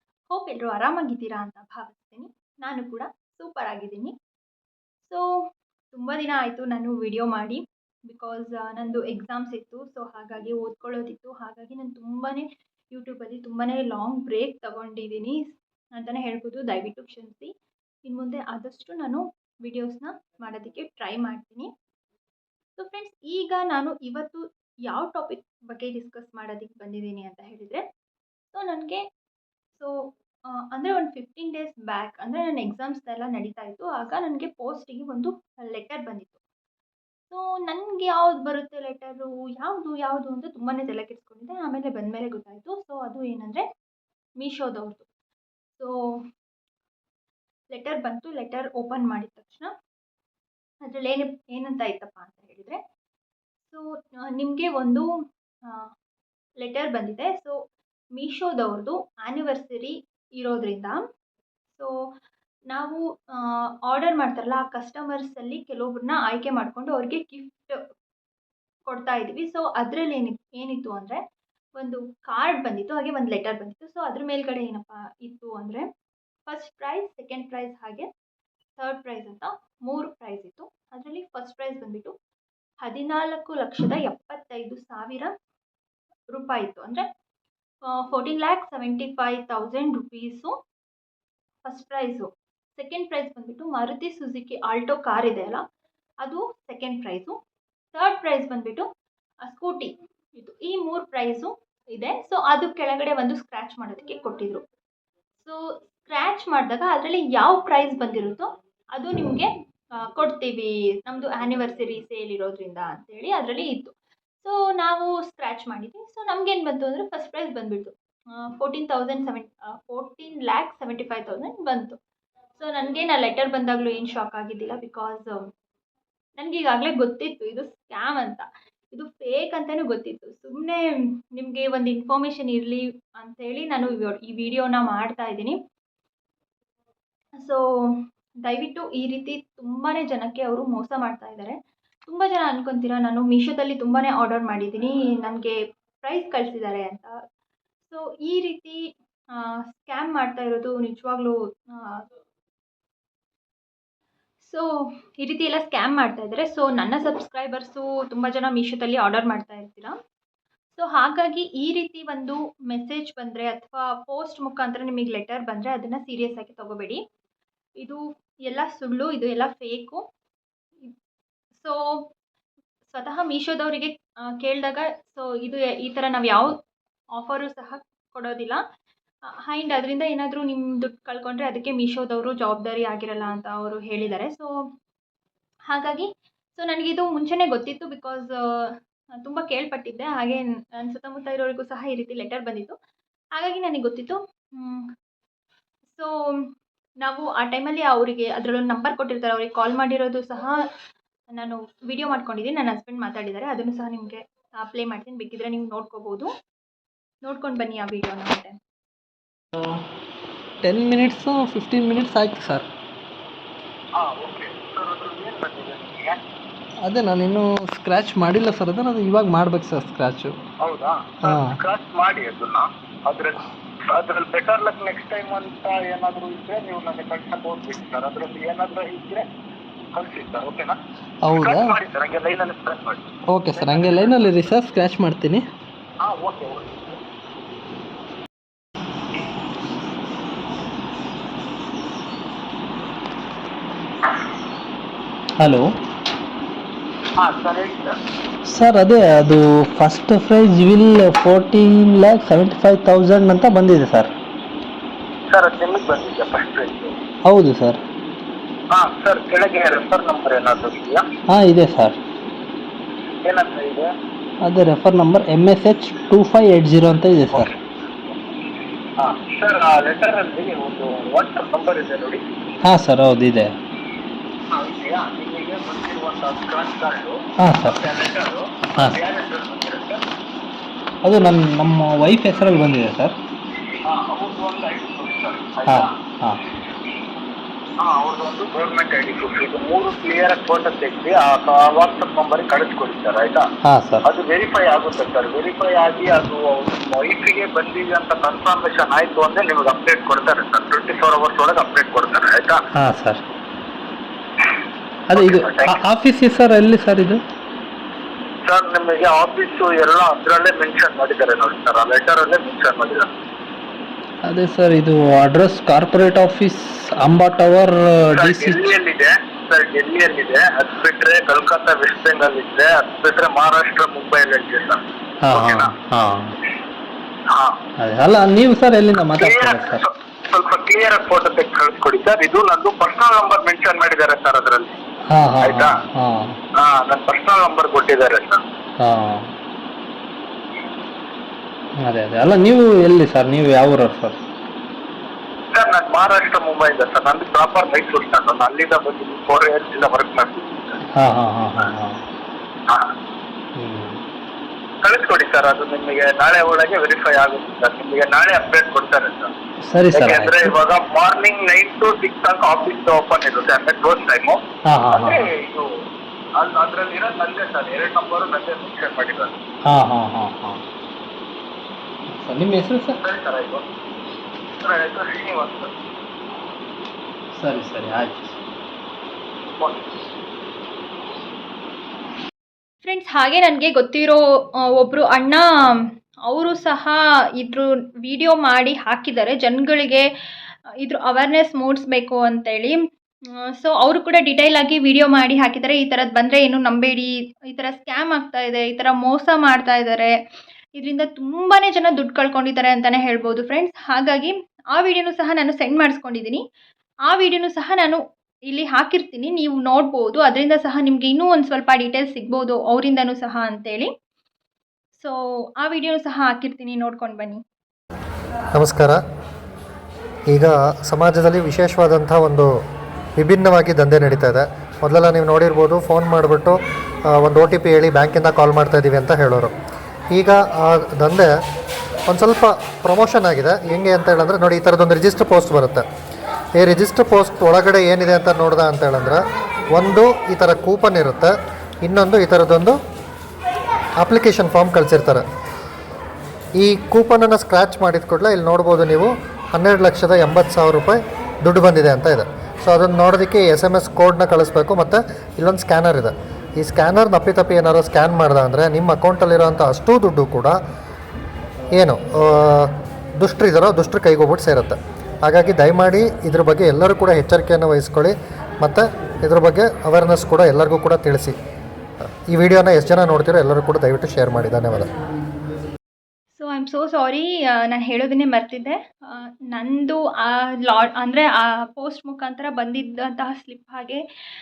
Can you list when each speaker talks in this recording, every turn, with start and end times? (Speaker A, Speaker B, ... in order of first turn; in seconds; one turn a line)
Speaker A: 0.3-4.1
Speaker A: 5.0-17.5
Speaker A: 18.1-21.7
Speaker A: 22.8-27.8
Speaker A: 28.5-29.0
Speaker A: 29.7-36.4
Speaker A: 37.3-43.6
Speaker A: 44.4-45.0
Speaker A: 45.8-46.2
Speaker A: 47.7-49.7
Speaker A: 50.8-52.8
Speaker A: 53.7-55.1
Speaker A: 56.6-57.5
Speaker A: 58.1-61.0
Speaker A: 62.7-67.8
Speaker A: 68.9-71.2
Speaker A: 71.8-75.8
Speaker A: 76.5-78.1
Speaker A: 78.8-82.1
Speaker A: 82.8-85.3
Speaker A: 86.3-87.0
Speaker A: 87.9-90.5
Speaker A: 91.6-95.6
Speaker A: 96.2-97.3
Speaker A: 97.9-98.9
Speaker A: 99.4-104.6
Speaker A: 105.4-122.0
Speaker A: 122.5-125.5
Speaker A: 126.4-135.6
Speaker A: 137.4-147.2
Speaker A: 147.9-152.0
Speaker A: 154.4-159.9
Speaker A: 160.8-167.0
Speaker A: 167.8-170.0
Speaker A: 171.6-172.1
Speaker A: 172.9-176.6
Speaker A: 177.2-178.6
Speaker A: 179.4-184.5
Speaker A: 185.7-192.7
Speaker A: 193.4-194.9
Speaker A: 195.9-196.5
Speaker A: 197.0-200.5
Speaker A: 201.3-206.3
Speaker A: 207.2-208.5
Speaker B: 210.6-212.6
Speaker C: 214.0-216.2
Speaker B: 216.8-220.3
Speaker C: 220.6-229.3
Speaker B: 221.3-221.5
Speaker C: 229.9-234.1
Speaker B: 231.2-231.7
Speaker B: 233.3-235.4
Speaker C: 236.0-236.8
Speaker B: 245.4-245.7
Speaker C: 247.2-248.0
Speaker B: 248.4-254.1
Speaker C: 255.3-257.0
Speaker B: 257.2-257.8
Speaker C: 258.7-261.0
Speaker B: 261.3-262.0
Speaker C: 263.2-263.9
Speaker B: 264.4-267.5
Speaker C: 269.0-272.2
Speaker B: 272.6-273.5
Speaker C: 274.5-280.0
Speaker B: 277.4-277.8
Speaker B: 281.0-283.1
Speaker C: 283.8-285.9
Speaker B: 285.6-286.4
Speaker C: 287.8-293.4
Speaker B: 293.6-294.1
Speaker C: 294.0-302.6
Speaker B: 302.7-303.2
Speaker B: 305.1-307.2
Speaker C: 305.1-305.8
Speaker C: 308.4-313.1
Speaker B: 314.2-318.6
Speaker C: 318.1-325.7
Speaker B: 325.2-326.4
Speaker B: 327.8-329.8
Speaker C: 329.2-334.7
Speaker B: 335.1-336.4
Speaker C: 335.4-335.7
Speaker C: 336.6-338.4
Speaker B: 338.8-339.3
Speaker B: 341.8-344.2
Speaker C: 345.5-350.8
Speaker B: 350.9-351.9
Speaker B: 353.6-354.0
Speaker C: 354.8-359.3
Speaker B: 359.6-360.5
Speaker C: 359.9-364.4
Speaker B: 364.7-365.2
Speaker C: 364.9-365.7
Speaker C: 366.4-369.3
Speaker B: 369.6-370.6
Speaker B: 372.1-373.0
Speaker C: 373.0-373.6
Speaker C: 374.6-375.7
Speaker B: 377.3-378.4
Speaker C: 379.6-379.8
Speaker A: 382.8-390.1
Speaker A: 390.8-392.8
Speaker A: 393.5-400.1
Speaker A: 400.8-406.4
Speaker A: 407.1-413.9
Speaker A: 414.9-417.4
Speaker D: 418.5-419.0
Speaker D: 420.3-422.5
Speaker D: 423.2-426.6
Speaker D: 427.1-429.5
Speaker D: 430.1-431.3
Speaker D: 432.1-435.8
Speaker D: 436.6-439.2
Speaker D: 439.7-441.3
Speaker D: 441.8-442.8
Speaker D: 444.0-445.2
Speaker D: 446.6-460.6
Speaker D: 461.7-471.3
Speaker D: 472.3-474.9
Speaker A: 476.3-484.0